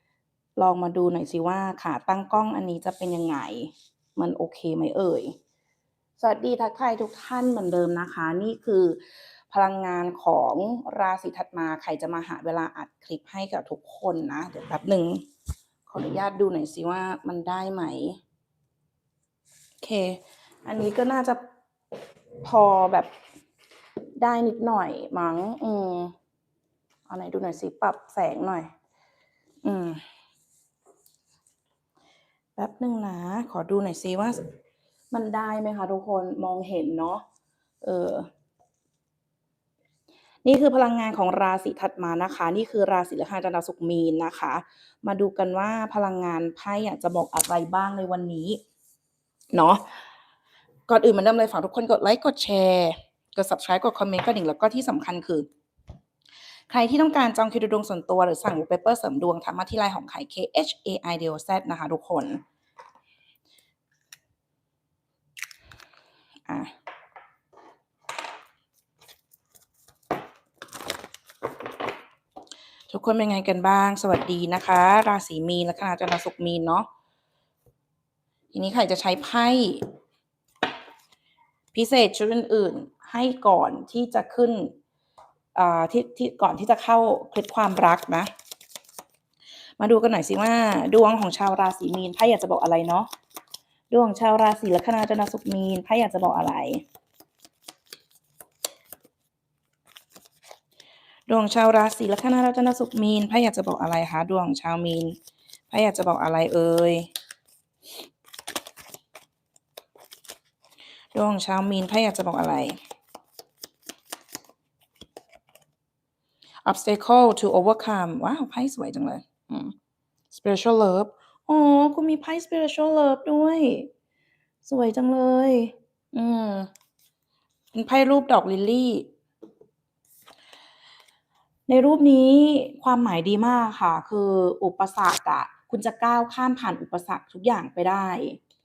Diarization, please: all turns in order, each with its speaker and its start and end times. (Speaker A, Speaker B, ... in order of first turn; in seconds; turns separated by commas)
Speaker A: 0.6-5.3, Speaker A: 6.2-9.0, Speaker A: 9.5-15.2, Speaker A: 15.9-18.2, Speaker A: 19.8-21.4, Speaker A: 22.4-23.1, Speaker A: 24.2-26.1, Speaker A: 27.1-28.7, Speaker A: 29.6-30.0, Speaker A: 32.5-34.4, Speaker A: 35.1-37.2, Speaker A: 37.8-38.3, Speaker A: 40.4-48.6, Speaker A: 49.5-49.8, Speaker A: 50.9-55.5, Speaker A: 56.7-62.4, Speaker A: 72.9-76.9, Speaker A: 78.5-79.8, Speaker A: 81.7-84.7, Speaker A: 85.5-88.3, Speaker A: 89.8-93.1, Speaker A: 93.9-96.8, Speaker A: 101.3-105.2, Speaker A: 105.7-107.1, Speaker A: 111.1-112.8, Speaker A: 116.6-119.7, Speaker A: 120.3-123.9, Speaker A: 124.6-126.7, Speaker A: 127.7-129.1, Speaker A: 131.7-138.4